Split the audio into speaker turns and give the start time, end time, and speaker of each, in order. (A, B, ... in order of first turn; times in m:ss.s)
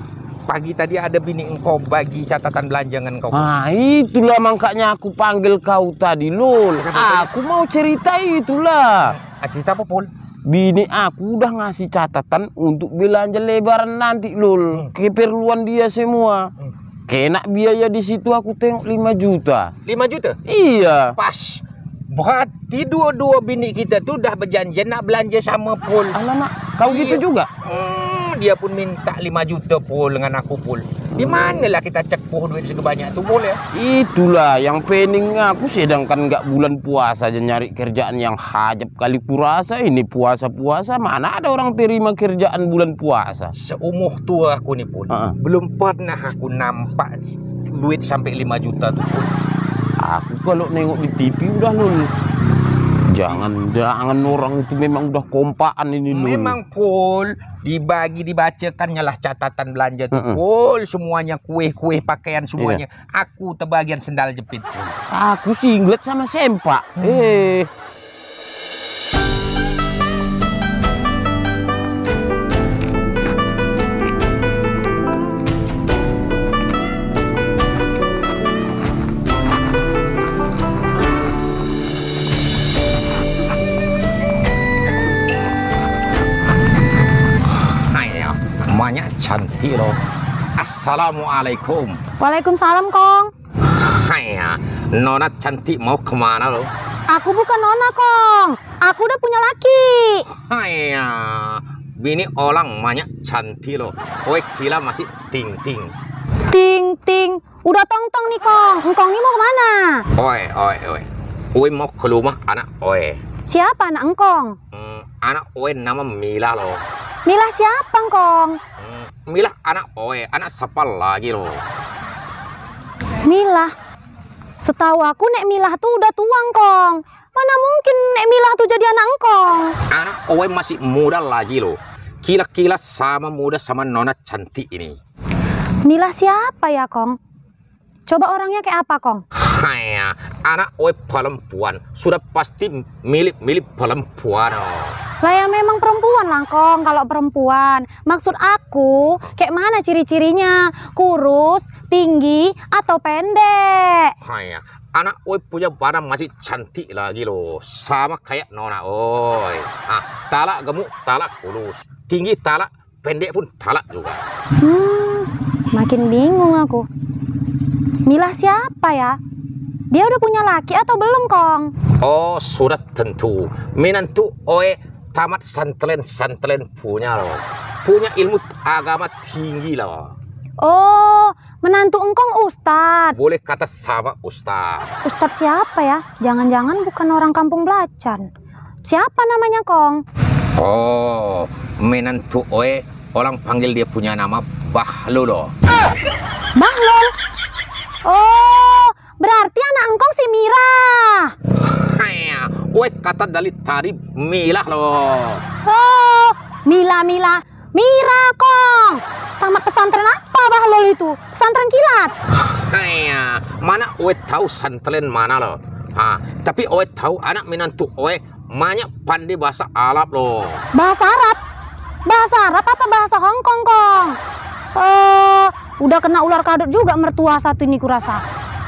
0:00.5-0:03.5 A
0:03.3-0:09.1 B
0:06.8-0:07.3 A
0:09.0-0:10.1 A
0:10.5-0:16.5 B
0:17.1-0:19.7 B
0:19.9-0:20.4 A
0:20.5-0:21.2 B
0:21.1-0:26.2 A
0:26.1-0:27.5 B
0:26.8-0:33.6 A
0:33.7-0:43.5 B
0:43.5-0:49.3 A
0:50.0-0:52.1 B
0:53.1-0:56.6 B
0:56.1-1:05.0 A
1:00.1-1:00.4 B
1:02.6-1:02.8 B
1:05.1-1:07.7 B
1:07.0-1:07.5 A
1:27.7-1:30.0 A
1:30.6-1:32.0 A
1:32.2-1:33.3 C
1:33.6-1:36.7 A
1:37.1-1:40.2 C
1:40.4-1:45.9 A
1:46.5-1:50.0 C
1:50.2-1:53.2 A
1:53.5-1:54.6 C
1:54.7-1:56.8 A
1:57.3-1:58.6 C
1:58.8-2:01.6 A
2:03.2-2:03.7 C
2:04.6-2:09.7 C
2:09.9-2:15.0 A
2:15.8-2:17.2 C
2:18.1-2:19.2 C
2:19.4-2:25.0 A
2:25.2-2:34.1 C
2:34.2-2:44.2 A
2:44.6-2:46.9 C
2:48.1-2:49.2 C
2:49.9-2:51.7 C
2:52.0-3:00.1 A
3:00.6-3:03.2 C
3:03.2-3:04.9 A
3:05.0-3:08.3 C
3:08.8-3:10.0 C
3:10.6-3:15.5 A
3:16.6-3:17.1 C
3:18.0-3:21.3 C
3:21.6-3:25.4 A
3:25.6-3:32.1 C
3:32.3-3:40.6 A
3:40.7-3:41.4 C
3:42.1-3:44.2 C
3:44.7-3:48.2 C